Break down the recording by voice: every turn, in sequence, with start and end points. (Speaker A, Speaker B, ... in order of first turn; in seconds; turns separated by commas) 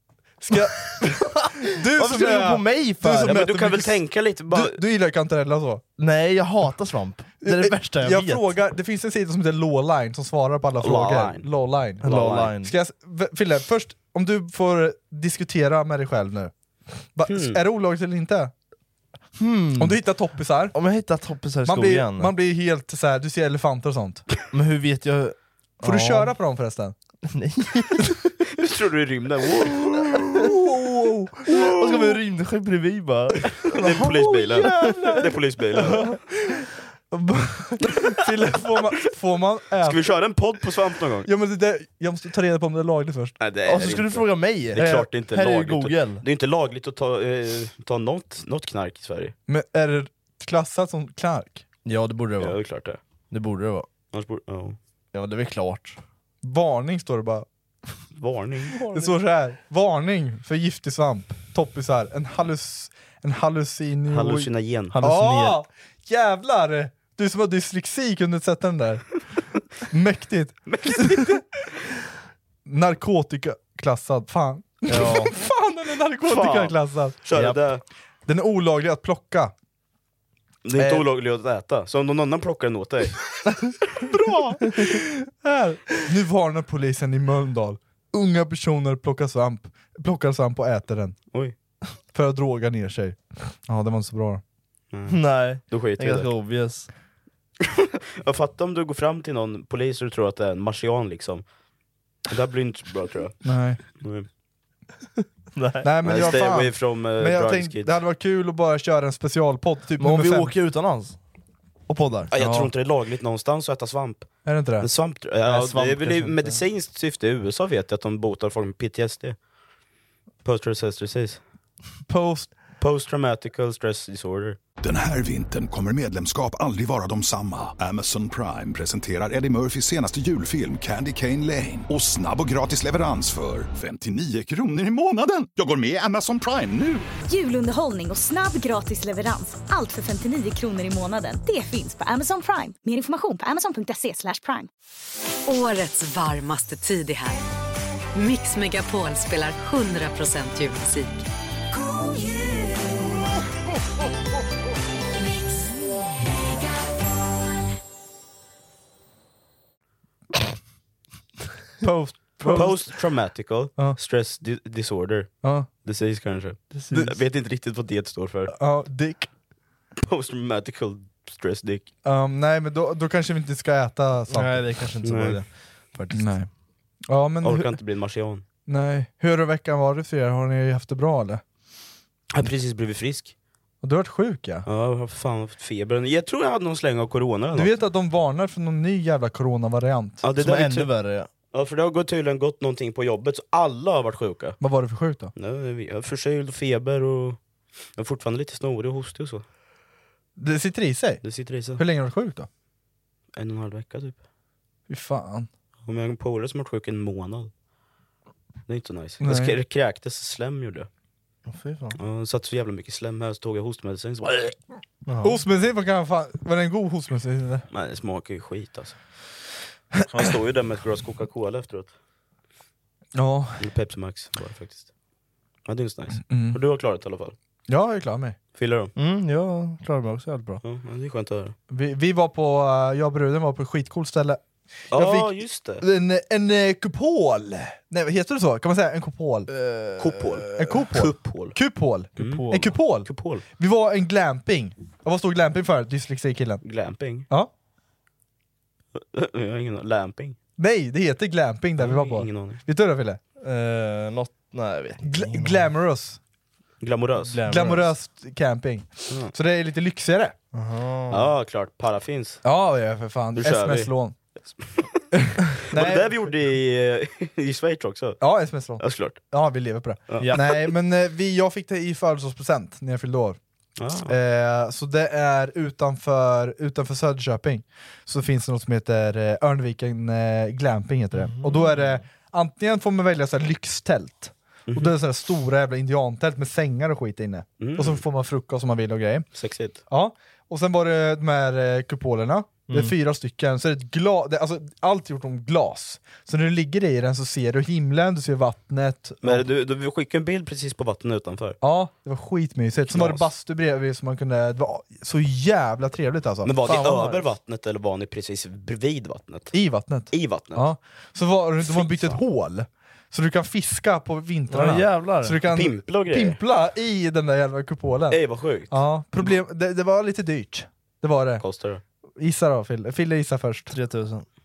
Speaker A: 0.4-4.0, Speaker B: 1.5-3.4, Speaker C: 3.2-4.8, Speaker A: 4.5-5.8, Speaker B: 6.0-8.4, Speaker A: 7.4-16.5, Speaker C: 10.8-11.5, Speaker C: 12.0-12.5, Speaker B: 12.0-12.7, Speaker A: 17.1-18.5, Speaker C: 17.3-17.6, Speaker B: 19.4-20.0, Speaker A: 19.8-20.8, Speaker B: 20.7-22.3, Speaker A: 21.6-24.3, Speaker B: 24.5-26.3, Speaker A: 25.8-26.9, Speaker B: 27.3-28.2, Speaker C: 28.5-30.6, Speaker A: 30.4-31.7, Speaker C: 31.5-32.2, Speaker B: 31.7-36.1, Speaker C: 33.6-36.2, Speaker A: 33.9-35.0, Speaker A: 35.8-36.2, Speaker A: 37.1-40.0, Speaker C: 39.8-41.3, Speaker A: 41.2-43.4, Speaker C: 43.4-49.3, Speaker B: 43.7-46.2, Speaker A: 49.5-51.6, Speaker B: 51.9-52.6, Speaker C: 52.4-53.0, Speaker B: 53.3-53.9, Speaker C: 54.1-54.8, Speaker B: 55.1-56.0, Speaker A: 56.4-57.5, Speaker C: 58.2-58.8, Speaker B: 58.7-59.2, Speaker A: 58.9-69.1, Speaker C: 64.1-65.0, Speaker B: 64.9-65.6, Speaker A: 69.9-71.4, Speaker C: 70.7-71.4, Speaker A: 72.7-77.2, Speaker B: 74.9-75.3, Speaker C: 76.3-77.8, Speaker B: 77.3-77.6, Speaker A: 78.3-79.5, Speaker C: 80.7-83.2, Speaker A: 80.8-81.0, Speaker A: 84.1-91.2, Speaker C: 84.1-84.4, Speaker A: 92.1-94.4, Speaker C: 94.9-96.3, Speaker B: 95.1-96.9, Speaker C: 97.6-101.5, Speaker C: 102.3-103.4, Speaker A: 103.4-103.8, Speaker C: 104.0-104.3, Speaker B: 105.5-105.9, Speaker A: 105.8-110.5, Speaker C: 106.0-107.9, Speaker B: 110.0-111.2, Speaker B: 111.9-112.3, Speaker C: 112.3-119.4, Speaker A: 112.3-112.7, Speaker A: 114.5-114.9, Speaker B: 115.5-116.6, Speaker C: 120.4-121.4, Speaker A: 122.1-122.5, Speaker C: 122.8-124.6, Speaker D: 124.8-137.1, Speaker E: 137.3-144.7, Speaker F: 145.5-147.4, Speaker F: 148.1-151.2, Speaker A: 161.8-162.9, Speaker C: 162.5-168.5, Speaker A: 165.4-165.7, Speaker B: 166.7-167.1, Speaker A: 168.5-169.3, Speaker C: 170.0-171.9, Speaker A: 172.0-174.7, Speaker B: 174.3-176.4, Speaker C: 175.0-175.4, Speaker A: 176.1-176.5, Speaker A: 177.1-177.8, Speaker C: 177.4-178.4, Speaker A: 178.7-181.4, Speaker C: 182.3-183.3, Speaker A: 183.8-184.7, Speaker C: 184.7-187.7, Speaker A: 187.5-190.2, Speaker C: 190.2-190.9, Speaker B: 190.4-191.3, Speaker C: 191.5-194.6, Speaker A: 194.6-195.3, Speaker C: 195.4-197.4, Speaker C: 198.0-199.4, Speaker A: 200.4-202.5, Speaker C: 201.2-201.8, Speaker C: 203.4-204.2, Speaker A: 204.9-205.5, Speaker C: 205.9-207.5, Speaker C: 208.7-210.9, Speaker A: 209.2-209.6, Speaker B: 211.5-212.0, Speaker C: 212.0-214.6, Speaker B: 215.1-215.4, Speaker A: 215.2-217.7, Speaker C: 217.7-219.0, Speaker C: 220.1-221.9, Speaker A: 223.2-223.7, Speaker C: 223.6-224.9, Speaker C: 225.7-227.3, Speaker A: 226.2-226.6, Speaker A: 227.7-228.4, Speaker C: 228.6-228.9, Speaker B: 229.0-230.6, Speaker C: 230.6-231.6, Speaker A: 231.7-239.5, Speaker C: 234.9-235.8, Speaker B: 239.5-240.7, Speaker C: 240.0-241.6, Speaker A: 240.6-246.6, Speaker C: 242.2-242.4, Speaker B: 242.2-242.7, Speaker C: 243.1-243.4, Speaker C: 246.6-247.3, Speaker C: 249.0-250.4, Speaker A: 250.6-253.2, Speaker C: 251.8-252.6, Speaker B: 253.4-255.7, Speaker A: 255.0-256.2, Speaker C: 256.8-257.4, Speaker B: 257.2-257.9, Speaker A: 257.4-260.4, Speaker B: 260.5-261.3, Speaker C: 261.1-262.4, Speaker A: 262.4-264.1, Speaker C: 263.4-263.9, Speaker C: 264.6-264.9, Speaker A: 265.1-266.3, Speaker C: 265.7-268.2, Speaker A: 268.2-273.4, Speaker C: 268.8-269.2, Speaker C: 270.1-270.6, Speaker C: 273.8-274.1, Speaker A: 274.1-289.3, Speaker B: 281.2-282.0, Speaker C: 284.7-284.9, Speaker C: 287.6-288.0, Speaker C: 289.4-289.8, Speaker A: 289.9-299.4, Speaker B: 292.7-292.9, Speaker C: 299.2-301.6, Speaker A: 301.6-306.7, Speaker C: 302.9-303.3, Speaker C: 306.4-309.5, Speaker B: 306.6-307.2, Speaker A: 309.5-321.4, Speaker C: 310.1-310.7, Speaker C: 311.6-312.2, Speaker B: 314.5-315.4, Speaker C: 315.5-316.4, Speaker C: 318.1-319.3, Speaker C: 321.4-321.8, Speaker A: 322.2-323.7, Speaker B: 323.7-324.2